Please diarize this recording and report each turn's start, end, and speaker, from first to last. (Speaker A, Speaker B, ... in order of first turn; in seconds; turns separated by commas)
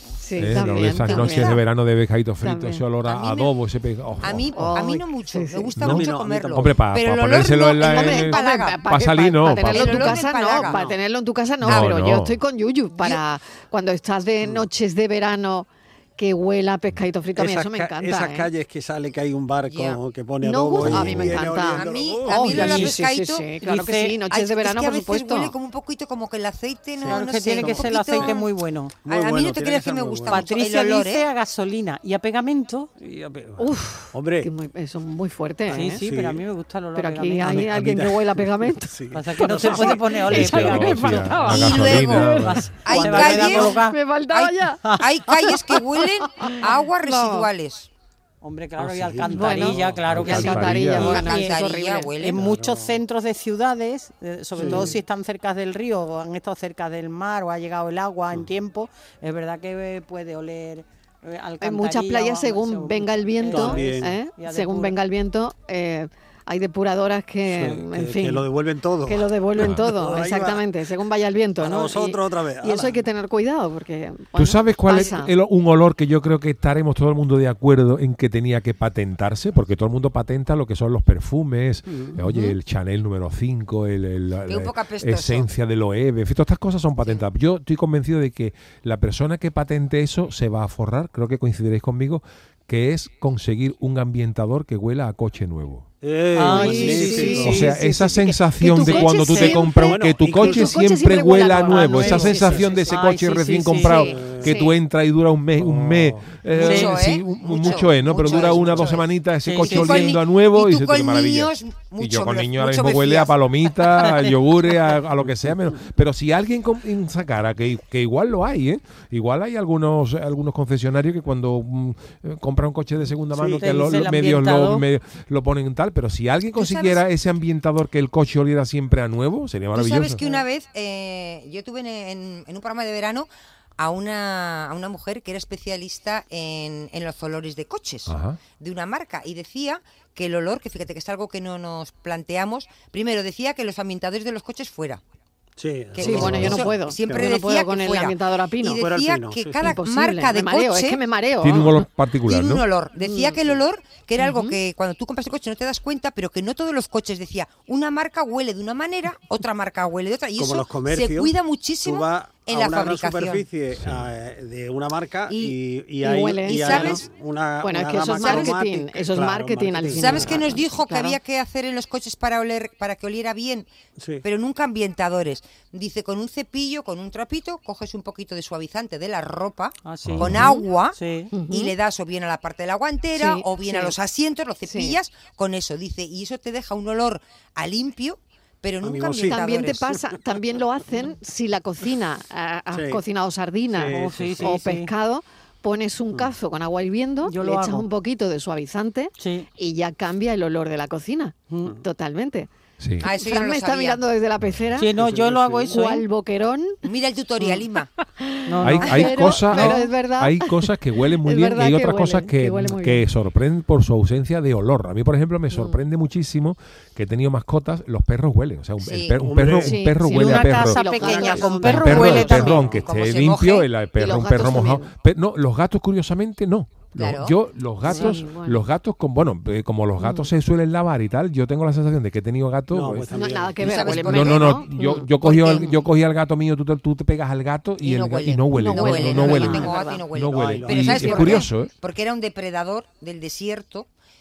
Speaker A: 0.2-1.6, Speaker B: 0.4-4.5, Speaker A: 2.4-2.8, Speaker C: 3.0-3.5, Speaker C: 4.2-8.8, Speaker A: 4.5-5.8, Speaker B: 5.8-10.3, Speaker D: 5.8-6.8, Speaker A: 7.8-18.5, Speaker C: 9.7-10.8, Speaker D: 10.6-11.0, Speaker B: 11.6-12.4, Speaker D: 14.4-14.7, Speaker D: 17.4-22.5, Speaker C: 19.7-20.0, Speaker A: 20.4-25.5, Speaker B: 20.8-21.5, Speaker C: 21.4-23.5, Speaker E: 22.5-22.9, Speaker E: 23.6-24.2, Speaker C: 24.3-28.5, Speaker D: 27.0-28.3, Speaker E: 27.0-29.0, Speaker D: 29.0-30.5, Speaker C: 29.1-31.3, Speaker E: 30.3-32.9, Speaker D: 33.0-34.5, Speaker A: 33.6-36.0, Speaker E: 35.7-37.9, Speaker D: 35.7-36.4, Speaker A: 36.9-38.9, Speaker D: 37.5-38.2, Speaker D: 38.8-40.7, Speaker E: 39.1-42.0, Speaker A: 39.5-44.8, Speaker B: 40.3-42.8, Speaker C: 41.5-43.8, Speaker E: 42.8-44.0, Speaker C: 44.3-47.9, Speaker A: 46.4-47.5, Speaker E: 48.4-65.0, Speaker D: 48.8-50.2, Speaker A: 49.2-52.1, Speaker B: 50.0-51.2, Speaker C: 51.0-52.4, Speaker D: 52.3-53.0, Speaker A: 54.5-54.9, Speaker D: 54.5-55.0, Speaker A: 61.6-68.4, Speaker D: 63.5-64.1, Speaker D: 67.5-70.6, Speaker A: 69.0-75.3, Speaker B: 69.6-69.9, Speaker D: 71.6-73.0, Speaker B: 74.3-95.9, Speaker D: 81.9-82.2, Speaker A: 82.2-82.5, Speaker C: 84.5-85.5, Speaker C: 87.0-87.3, Speaker D: 96.0-97.6, Speaker E: 96.3-97.8, Speaker A: 96.4-103.0, Speaker B: 97.4-130.2, Speaker E: 98.6-99.6, Speaker D: 99.7-100.8, Speaker E: 101.6-104.1, Speaker D: 102.1-102.5, Speaker A: 103.7-104.8, Speaker D: 104.2-104.5, Speaker D: 105.5-106.4, Speaker E: 106.5-107.0, Speaker C: 106.5-113.4, Speaker D: 107.6-108.9, Speaker E: 109.4-110.2, Speaker E: 114.0-114.3, Speaker D: 123.3-123.9, Speaker E: 123.6-124.8, Speaker C: 126.5-127.0, Speaker C: 129.7-145.0, Speaker B: 138.1-138.4, Speaker D: 145.6-147.3, Speaker C: 145.9-151.0, Speaker A: 146.0-148.8, Speaker B: 146.2-146.5, Speaker D: 148.8-149.7, Speaker A: 149.6-151.8, Speaker B: 151.4-152.7, Speaker C: 152.2-163.4, Speaker A: 153.0-153.4, Speaker A: 154.2-154.6, Speaker D: 160.3-170.6, Speaker B: 163.8-164.0, Speaker C: 165.3-165.6, Speaker A: 166.0-167.0, Speaker C: 166.5-167.0, Speaker A: 167.6-171.2, Speaker C: 168.2-168.6, Speaker C: 169.9-173.7, Speaker D: 174.0-174.2, Speaker C: 174.2-189.8, Speaker E: 179.8-181.3, Speaker B: 180.0-180.5, Speaker A: 181.3-181.7, Speaker A: 183.1-183.9, Speaker A: 184.6-185.0, Speaker D: 188.8-189.7, Speaker A: 189.2-202.5, Speaker D: 192.7-193.0, Speaker D: 193.7-194.6, Speaker E: 193.9-194.9, Speaker E: 197.2-197.8, Speaker E: 199.2-199.5, Speaker B: 202.8-203.1, Speaker C: 203.0-204.0, Speaker A: 203.0-204.9, Speaker E: 204.8-206.1, Speaker D: 204.9-205.7, Speaker A: 205.7-206.8, Speaker C: 206.8-207.9, Speaker A: 208.2-210.7, Speaker E: 208.5-209.7, Speaker B: 208.6-220.9, Speaker A: 211.2-213.0, Speaker A: 215.5-215.8, Speaker C: 218.8-219.2, Speaker D: 219.2-219.8, Speaker A: 219.6-222.6, Speaker E: 220.1-222.6, Speaker D: 220.9-222.8, Speaker B: 221.6-233.1, Speaker C: 222.7-223.7, Speaker A: 224.0-224.9, Speaker C: 227.0-227.3, Speaker A: 227.8-228.6, Speaker A: 230.0-230.3, Speaker D: 232.7-234.2, Speaker A: 233.1-235.7, Speaker C: 233.6-235.9, Speaker B: 234.0-241.7, Speaker C: 237.8-243.9, Speaker A: 238.5-240.0, Speaker D: 240.3-241.5